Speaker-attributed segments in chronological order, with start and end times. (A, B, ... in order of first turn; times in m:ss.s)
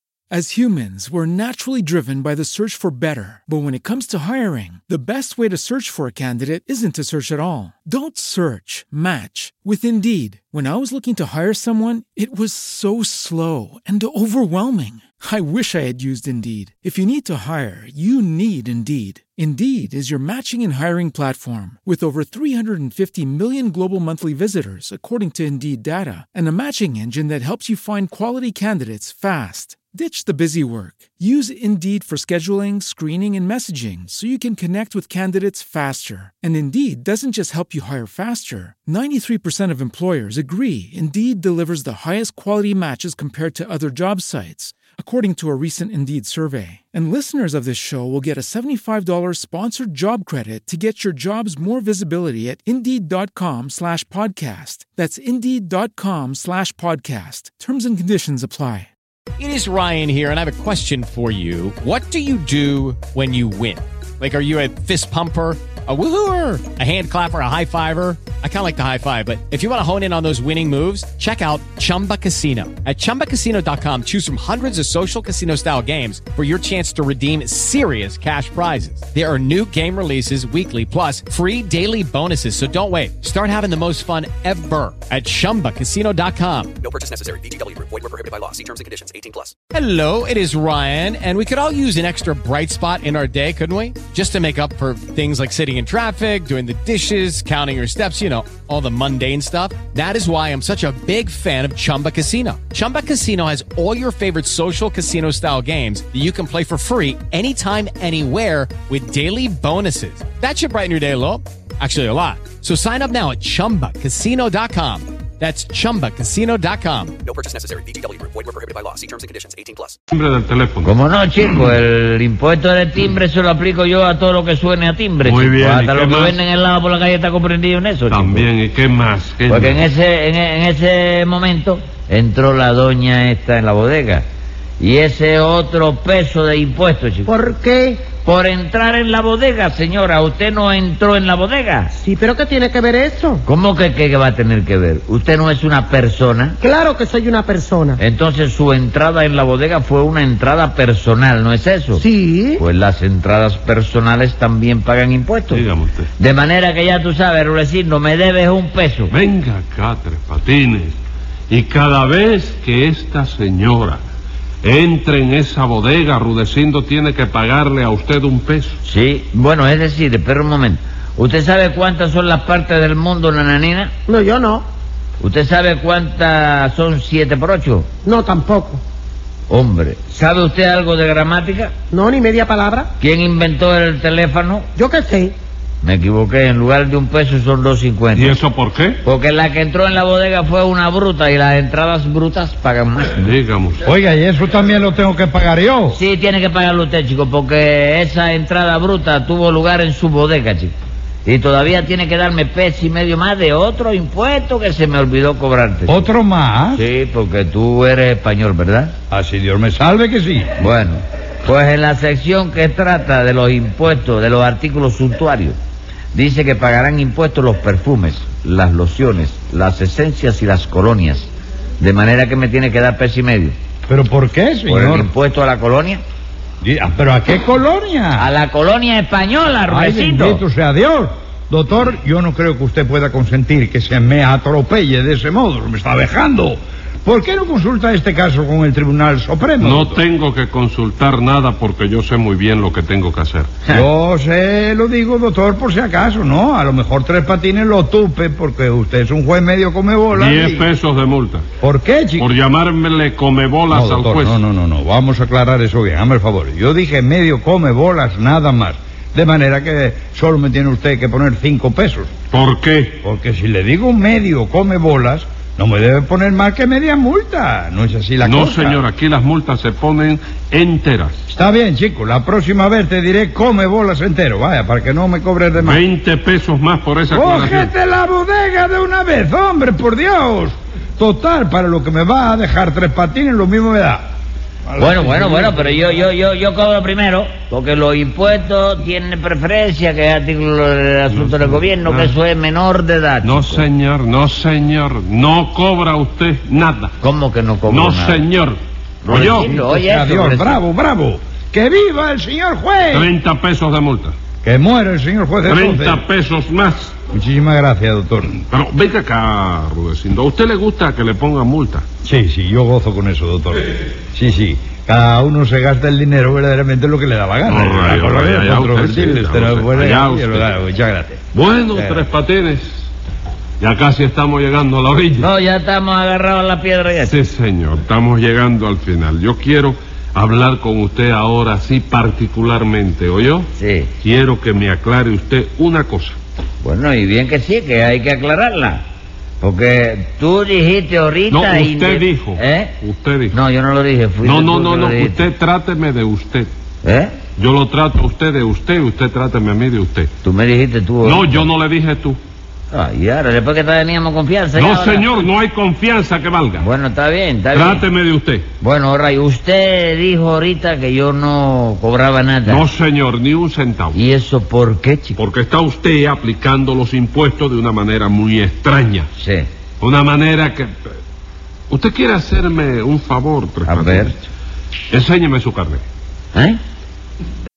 0:00.3-0:58.9 A
0:59.4-1:26.8 B
1:26.8-1:29.5 C
1:29.7-1:57.2 B
1:57.2-2:00.0 C
2:00.1-2:00.9 D
2:00.8-2:08.4 E
2:05.2-2:06.4 D
2:08.1-2:09.8 D
2:09.5-2:14.2 E
2:14.8-2:17.3 E
2:17.3-2:18.1 F
2:18.1-2:21.9 E
2:21.9-2:23.4 F
2:23.4-2:26.6 E
2:26.6-2:28.0 F
2:28.0-2:32.0 E
2:32.0-2:32.6 F
2:32.6-2:35.6 E
2:35.5-2:36.1 D
2:36.2-2:39.1 E
2:39.1-2:41.0 D
2:41.5-2:44.0 D
2:44.6-2:48.8 D
2:48.8-2:53.9 E
2:54.1-2:54.7 F
2:55.2-2:57.9 E
2:58.0-2:58.8 F
2:59.5-3:01.7 E
3:01.9-3:02.9 F
3:03.0-3:04.7 E
3:04.8-3:05.3 F
3:05.8-3:08.4 E
3:08.1-3:09.0 D
3:09.0-3:13.3 E
3:13.2-3:13.8 D
3:13.8-3:16.0 G
3:15.9-3:26.1 E
3:25.8-3:26.8 G
3:26.7-3:28.9 E
3:29.1-3:30.6 G
3:30.6-3:35.6 E
3:36.1-3:43.5 E
3:43.9-3:45.1 G
3:44.7-3:46.0 E
3:46.6-3:48.3 G
3:48.2-3:50.4 E
3:49.7-4:00.0 G
3:59.6-4:03.5 D
4:03.7-4:10.7 G
4:10.1-4:11.4 D
4:11.6-4:12.3 G
4:12.2-4:14.4 D
4:13.7-4:22.1 G
4:22.3-4:23.0 D
4:23.0-4:28.8 G
4:28.2-4:31.2 D
4:31.3-4:35.8 G
4:35.6-4:37.7 D
4:37.1-4:44.0 G
4:44.7-4:45.8 G
4:44.8-4:53.6 E
4:51.1-4:52.1 D
4:53.2-4:56.9 D
4:57.0-4:58.2 E
4:57.7-4:58.6 D
4:59.0-5:00.6 E
4:59.1-5:03.1 G
4:59.1-4:59.6 D
5:02.9-5:04.1 D
5:04.4-5:06.0 G
5:05.5-5:07.0 D
5:07.1-5:08.4 G
5:08.5-5:11.8 D
5:12.0-5:21.2 G
5:17.5-5:20.4 D
5:21.3-5:22.8 D
5:21.7-5:22.0 G
5:23.6-5:25.3 D
5:25.2-5:27.1 E
5:26.9-5:33.5 D
5:33.6-5:33.9 E
5:34.0-5:36.2 D
5:36.6-5:38.8 E
5:39.4-5:42.7 E
5:41.3-5:43.4 D
5:43.3-5:45.3 E
5:44.2-5:46.5 D
5:46.8-5:47.1 E
5:47.4-5:50.1 D
5:50.2-5:51.5 E
5:51.0-5:52.2 D
5:52.7-5:55.3 E
5:54.6-5:56.6 D
5:56.6-5:57.8 E
5:57.5-5:58.4 D
5:58.6-6:02.6 E
6:02.5-6:04.0 D
6:03.9-6:05.2 E
6:05.2-6:09.1 D
6:09.2-6:09.5 E
6:09.8-6:10.8 D
6:11.7-6:14.1 D
6:13.6-6:14.2 E
6:14.9-6:15.8 D
6:16.3-6:16.6 E